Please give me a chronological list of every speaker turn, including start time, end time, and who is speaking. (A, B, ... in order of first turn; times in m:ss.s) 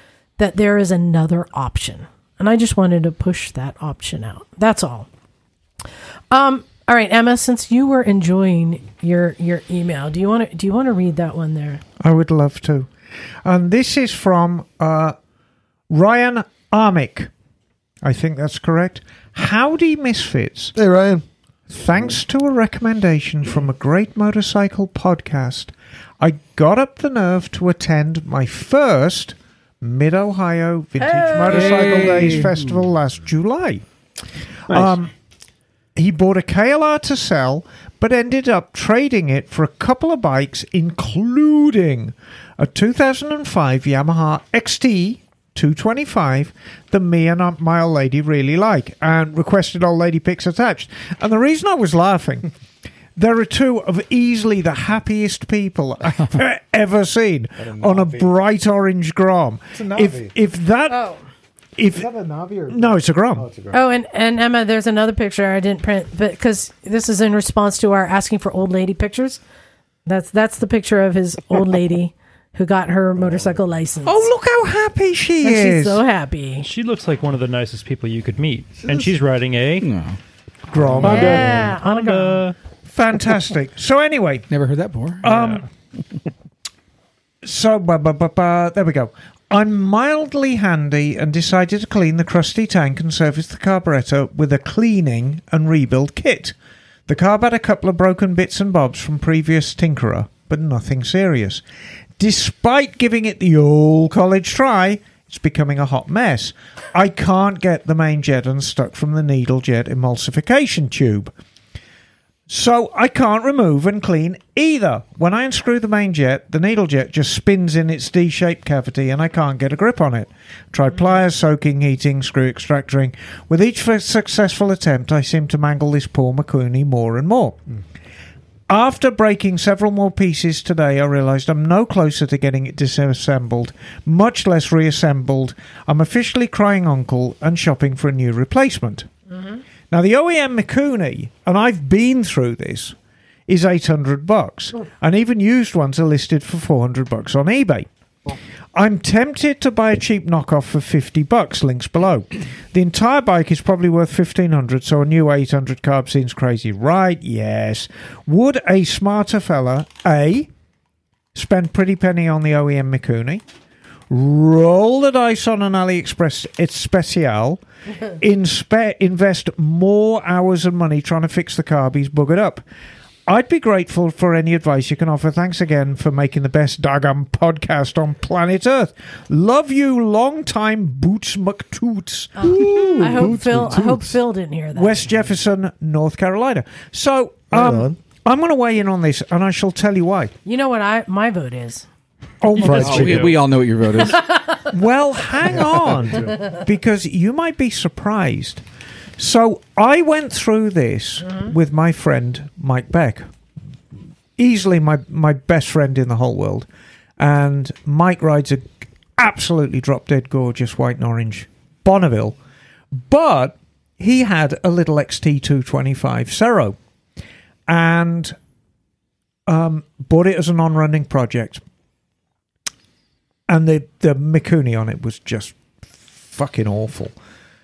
0:00.4-0:05.1 A
0:06.3-0:11.8 A
0:12.0-0:12.9 B
0:13.4-0:15.1 B
0:15.9-0:17.3 B
0:18.0-0:20.7 B
0:20.7-0:21.2 C
0:21.7-0:33.8 B
0:31.0-0:31.7 A
0:31.5-0:32.6 D
0:34.7-0:35.1 B
0:36.0-0:52.5 B
0:53.2-1:01.0 B
0:57.6-0:58.3 E
0:59.7-1:00.3 E
1:00.9-1:01.2 A
1:01.8-1:02.1 B
1:01.9-1:03.8 E
1:02.7-1:03.5 B
1:03.7-1:09.4 A
1:10.0-1:14.3 A
1:14.0-1:16.0 B
1:15.4-1:16.7 A
1:16.6-1:19.9 F
1:19.8-1:20.2 D
1:20.7-1:21.5 B
1:20.8-1:22.5 F
1:21.0-1:22.4 A
1:22.9-1:24.5 B
1:24.5-1:25.3 D
1:25.2-1:25.6 B
1:25.3-1:25.6 F
1:27.4-1:36.5 B
1:37.1-1:41.6 B
1:42.2-1:51.3 B
1:52.5-2:07.6 B
2:08.7-2:19.1 B
2:19.9-2:22.9 B
2:23.5-2:27.9 B
2:28.7-2:40.5 B
2:41.3-2:43.4 B
2:44.1-2:47.6 B
2:48.2-2:52.6 B
2:53.3-3:03.4 B
3:02.4-3:05.0 A
3:02.5-3:04.2 C
3:04.7-3:10.3 B
3:07.5-3:08.0 C
3:10.4-3:11.9 A
3:12.4-3:13.4 B
3:12.6-3:13.3 C
3:12.6-3:14.2 D
3:14.6-3:18.6 B
3:19.2-3:23.2 B
3:24.4-3:26.7 B
3:27.2-3:32.4 B
3:32.9-3:36.8 B
3:37.7-3:38.3 B
3:39.5-3:41.6 B
3:43.5-3:45.6 B
3:46.2-3:47.1 B